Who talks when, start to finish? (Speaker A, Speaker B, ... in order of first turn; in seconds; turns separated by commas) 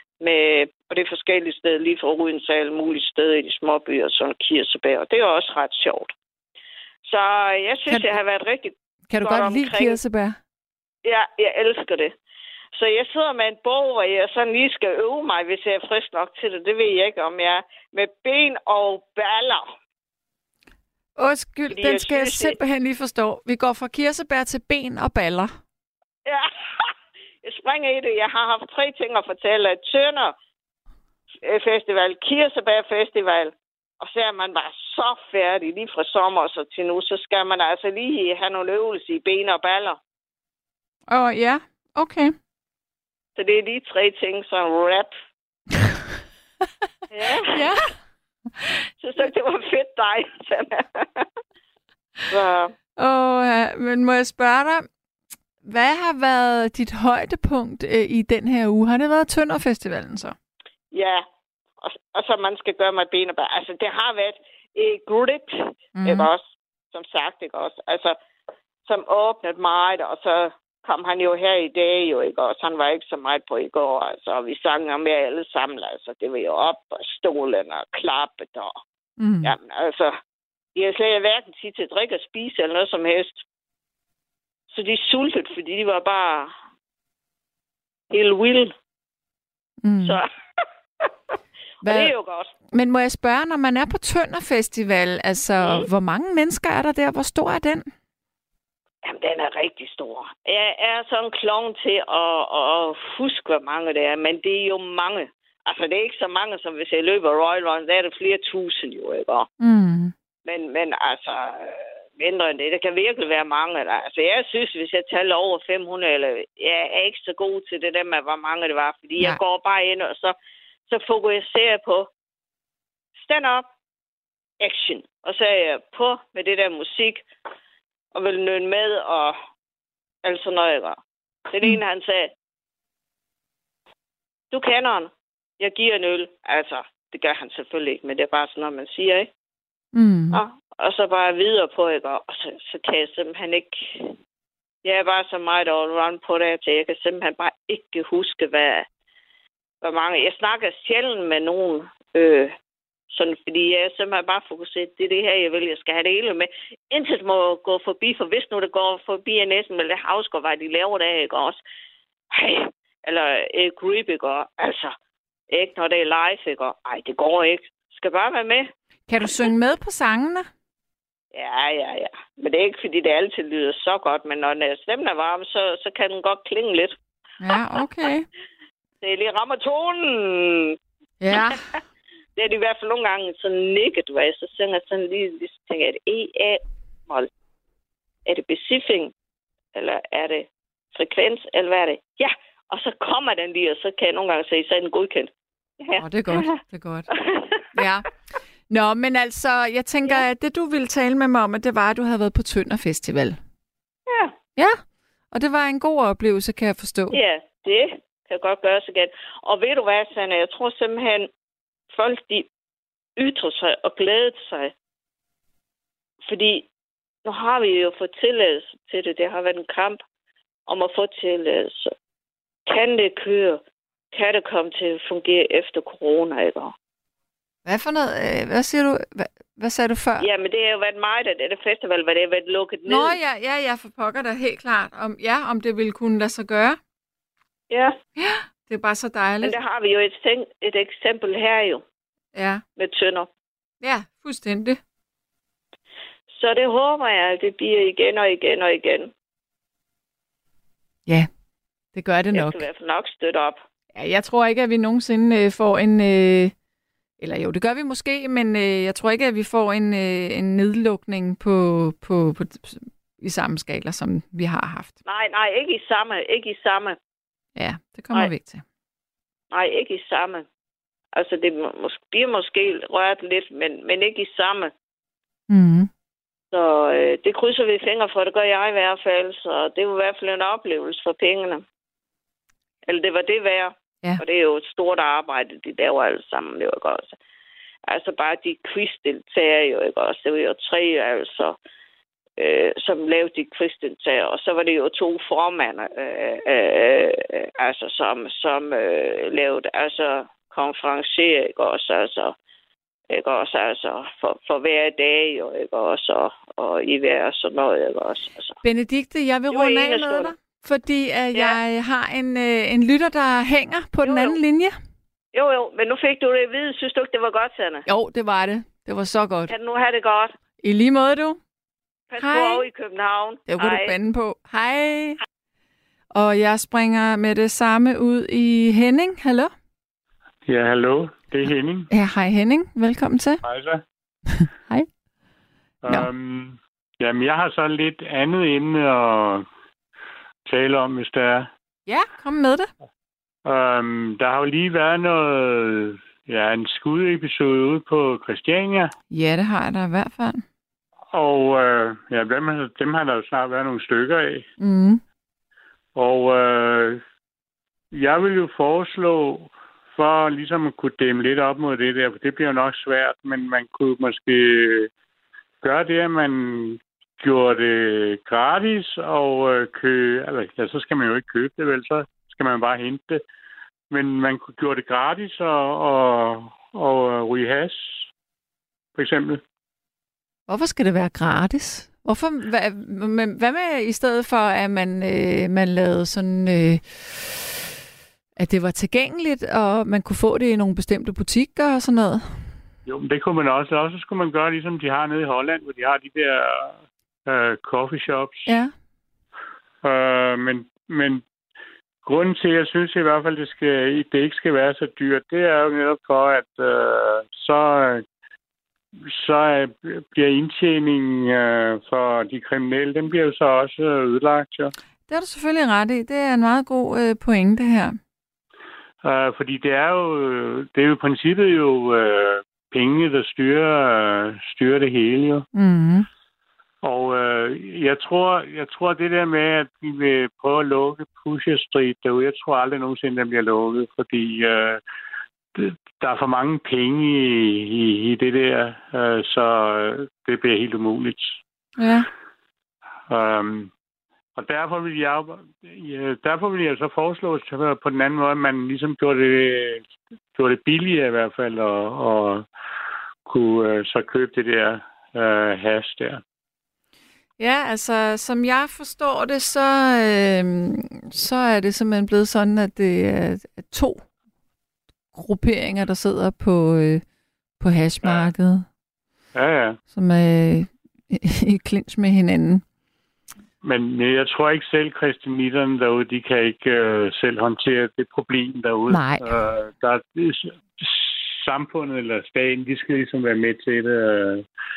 Speaker A: 0.2-6.1, Speaker A: 7.0-10.0, Speaker B: 7.9-8.2, Speaker B: 9.1-10.4, Speaker A: 11.0-12.1, Speaker A: 12.7-19.7, Speaker B: 21.2-25.5, Speaker A: 21.7-22.6, Speaker A: 26.2-26.9, Speaker A: 27.4-30.3, Speaker A: 31.4-40.0, Speaker B: 41.1-42.3, Speaker A: 43.4-45.1, Speaker A: 47.1-47.9, Speaker B: 47.5-47.9, Speaker A: 49.0-51.2, Speaker A: 52.3-52.7, Speaker B: 53.0-54.9, Speaker B: 55.6-60.3, Speaker A: 60.9-61.2, Speaker A: 61.8-68.2, Speaker B: 66.0-66.3, Speaker A: 68.8-78.8, Speaker B: 79.2-79.5, Speaker A: 79.4-80.2, Speaker A: 80.7-83.4, Speaker A: 84.7-86.5, Speaker A: 88.1-88.7, Speaker B: 89.8-90.2, Speaker A: 91.8-92.5, Speaker B: 91.8-92.1, Speaker B: 92.7-97.9, Speaker A: 95.6-95.9, Speaker A: 99.0-109.5, Speaker B: 109.6-110.1, Speaker A: 110.4-120.3, Speaker A: 120.9-122.1, Speaker A: 123.2-123.7, Speaker A: 124.6-127.2, Speaker A: 128.1-129.4, Speaker A: 130.2-132.3, Speaker A: 134.5-139.3, Speaker B: 139.9-140.4, Speaker A: 140.3-144.1, Speaker A: 144.8-148.8, Speaker A: 149.8-152.5, Speaker A: 153.1-161.6, Speaker A: 162.3-164.9, Speaker A: 165.5-168.7, Speaker B: 169.1-170.5, Speaker A: 171.3-176.9, Speaker B: 177.4-178.3, Speaker A: 179.0-180.8, Speaker B: 181.2-181.6, Speaker A: 181.3-181.6, Speaker A: 182.4-187.3, Speaker A: 188.2-189.1, Speaker A: 189.7-196.6, Speaker B: 196.0-197.1, Speaker A: 197.1-197.6, Speaker B: 197.7-198.1, Speaker B: 198.7-203.4, Speaker A: 204.1-204.3, Speaker B: 204.6-204.8, Speaker B: 205.3-207.2, Speaker A: 207.1-211.3, Speaker A: 211.9-212.5, Speaker A: 213.2-214.7, Speaker A: 216.2-216.7, Speaker A: 217.2-220.0, Speaker A: 220.7-221.9, Speaker A: 222.7-226.7, Speaker B: 227.6-230.3, Speaker A: 230.2-233.2, Speaker B: 232.9-236.8, Speaker A: 237.7-237.9, Speaker B: 238.2-239.6, Speaker A: 239.4-241.8, Speaker B: 242.3-242.6, Speaker A: 242.8-243.3, Speaker B: 243.8-244.8, Speaker A: 246.3-249.1, Speaker B: 251.9-252.6, Speaker A: 252.3-253.6, Speaker B: 253.9-256.5, Speaker B: 257.2-264.9, Speaker A: 265.1-267.0, Speaker B: 267.6-268.6, Speaker A: 269.5-270.4, Speaker A: 271.1-274.7, Speaker B: 275.5-275.9, Speaker A: 276.5-281.6, Speaker A: 282.9-287.2, Speaker A: 287.9-291.6, Speaker A: 292.4-302.3, Speaker A: 303.1-308.6, Speaker B: 308.6-314.8, Speaker A: 309.5-310.3, Speaker A: 311.3-311.6, Speaker A: 314.0-314.4, Speaker A: 315.3-317.9, Speaker B: 317.9-319.5, Speaker A: 319.5-320.3, Speaker B: 320.6-321.4, Speaker A: 322.1-324.0, Speaker B: 322.2-322.7, Speaker B: 323.5-325.2, Speaker B: 326.1-329.5, Speaker C: 330.5-331.9, Speaker B: 331.9-333.4, Speaker C: 333.4-333.8, Speaker B: 334.3-334.9, Speaker C: 335.8-339.4, Speaker C: 340.5-341.5, Speaker B: 341.9-342.7, Speaker C: 343.4-348.9, Speaker B: 349.1-350.4, Speaker C: 351.1-354.4, Speaker B: 354.6-355.0, Speaker C: 355.9-357.0, Speaker C: 357.9-364.9, Speaker C: 365.6-373.2, Speaker C: 373.9-378.1, Speaker C: 378.9-379.4, Speaker B: 380.5-387.6, Speaker B: 388.4-392.5, Speaker C: 392.9-398.5, Speaker B: 398.4-398.7, Speaker C: 399.8-401.2, Speaker C: 402.0-408.0, Speaker C: 409.0-414.7, Speaker B: 415.1-418.0, Speaker C: 419.0-425.4, Speaker B: 425.5-426.1, Speaker C: 426.8-434.8, Speaker C: 435.5-441.4, Speaker B: 441.8-442.1, Speaker C: 443.1-443.7, Speaker C: 444.4-452.4, Speaker C: 453.2-456.2, Speaker B: 457.4-464.0, Speaker B: 465.1-467.0, Speaker B: 467.6-468.6, Speaker C: 468.0-468.3, Speaker C: 469.3-469.8, Speaker B: 469.9-472.6, Speaker C: 473.6-484.4, Speaker B: 478.9-479.3